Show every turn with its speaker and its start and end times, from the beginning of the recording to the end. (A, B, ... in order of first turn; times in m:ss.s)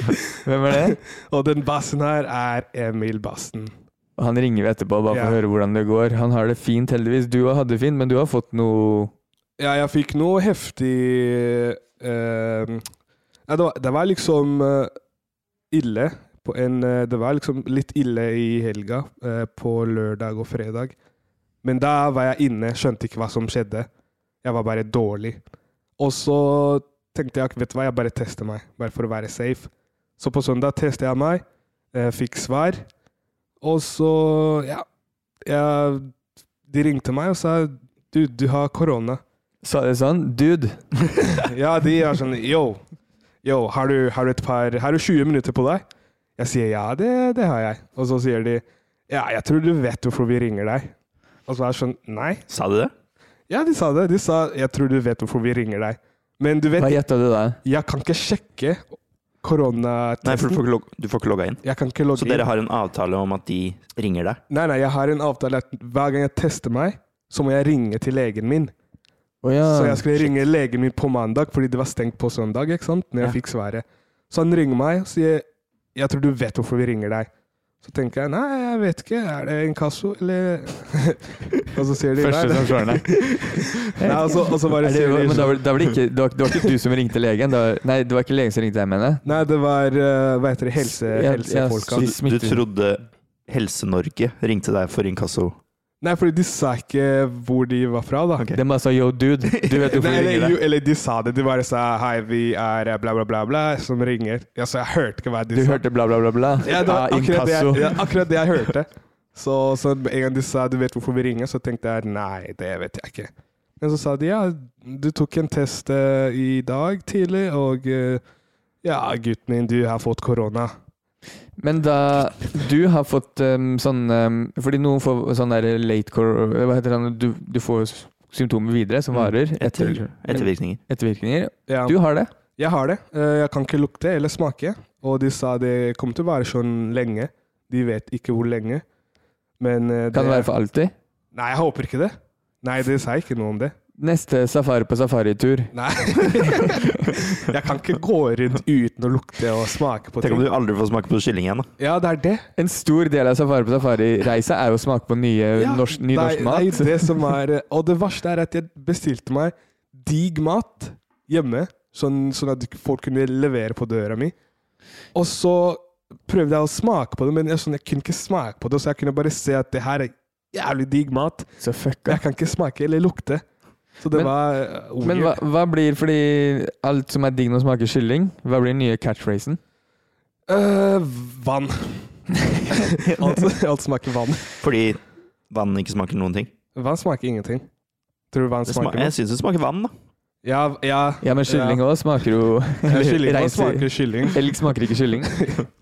0:00.4-0:01.0 A
0:01.3-0:03.7 B
0:04.2-0:09.1 A
0:05.1-0:05.4 B
0:09.6-0:12.8 B
0:13.5-0:14.9 B
0:15.7-0:21.0 B
0:21.6-0:23.9 B
0:24.4-0:25.4 B
0:26.0-0:32.9 B
0:33.6-0:34.8 B
0:35.5-0:36.1 B
0:36.7-0:39.2 B
0:39.6-0:40.8 A
0:41.4-0:42.8 B
0:43.4-0:45.8 B
0:46.4-0:50.9 B
0:51.5-0:52.4 B
0:52.5-0:52.9 C
0:53.5-0:57.0 B
0:56.8-0:57.6 A
0:57.6-0:58.8 B
0:59.4-1:00.6 B
1:00.2-1:01.6 C
1:01.6-1:02.5 B
1:02.1-1:04.4 C
1:04.5-1:08.7 B
1:09.4-1:10.0 A
1:09.7-1:17.3 B
1:17.8-1:23.2 B
1:22.2-1:23.2 A
1:24.0-1:29.2 A
1:24.0-1:25.6 B
1:29.2-1:32.1 B
1:30.8-1:32.6 A
1:32.0-1:35.6 C
1:36.0-1:38.5 B
1:38.6-1:40.6 A
1:39.9-1:45.8 B
1:45.5-1:48.0 A
1:46.6-1:58.2 B
1:58.8-2:00.7 B
2:01.6-2:12.3 A
2:09.1-2:10.8 C
2:11.7-2:12.0 B
2:12.6-2:18.8 B
2:19.6-2:20.5 B
2:20.1-2:20.9 A
2:21.3-2:23.7 B
2:24.0-2:25.7 A
2:25.7-2:30.5 B
2:30.2-2:31.7 C
2:31.8-2:32.4 B
2:32.6-2:36.8 A
2:35.6-2:44.4 B
2:45.2-2:51.5 B
2:51.6-2:52.2 A
2:52.1-2:53.4 B
2:54.0-2:55.4 B
2:55.0-2:59.6 A
3:00.5-3:02.1 B
3:02.7-3:04.5 B
3:04.6-3:06.5 C
3:06.8-3:07.7 B
3:08.3-3:09.1 B
3:08.7-3:09.9 C
3:10.4-3:11.8 B
3:11.2-3:15.4 A
3:12.9-3:14.4 B